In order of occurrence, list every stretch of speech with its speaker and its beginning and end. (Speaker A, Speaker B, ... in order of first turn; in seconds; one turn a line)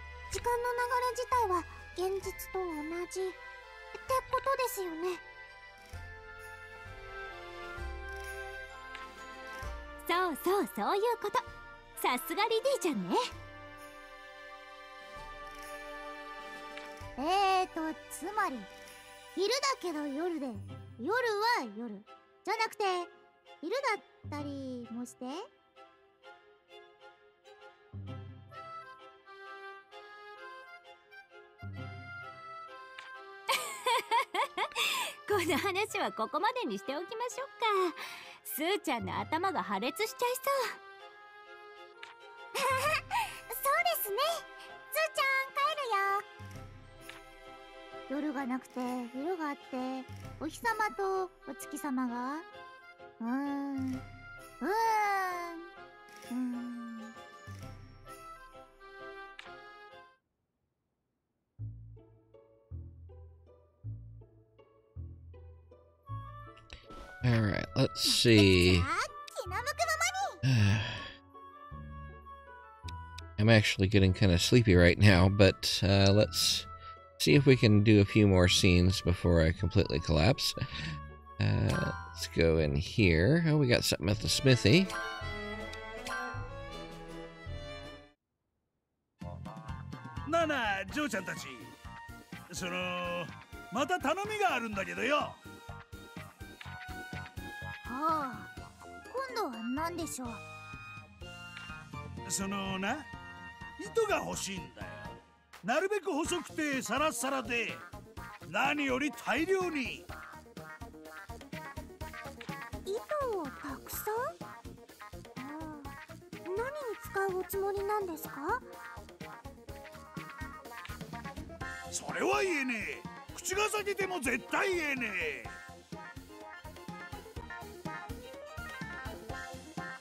Speaker A: 0.3-3.4
Speaker A: 3.9-5.2
Speaker B: 10.0-11.4
Speaker B: 12.0-13.2
Speaker A: 17.2-18.7
Speaker A: 19.4-23.1
Speaker A: 23.6-25.4
Speaker B: 33.5-40.8
Speaker A: 42.5-46.2
Speaker A: 48.1-52.5
Speaker A: 53.2-54.0
Speaker A: 54.6-55.7
Speaker A: 56.3-57.1
Speaker C: 67.2-68.9
Speaker A: 68.0-70.4
Speaker C: 70.4-71.1
Speaker C: 73.4-76.7
Speaker C: 77.2-80.6
Speaker C: 81.4-84.9
Speaker D: 90.2-91.7
Speaker D: 92.5-95.4
Speaker A: 97.8-98.5
Speaker A: 99.1-100.4
Speaker D: 102.2-103.0
Speaker D: 103.8-107.8
Speaker D: 108.5-110.1
Speaker A: 112.8-114.2
Speaker A: 115.4-115.9
Speaker A: 116.5-118.6
Speaker D: 121.9-125.5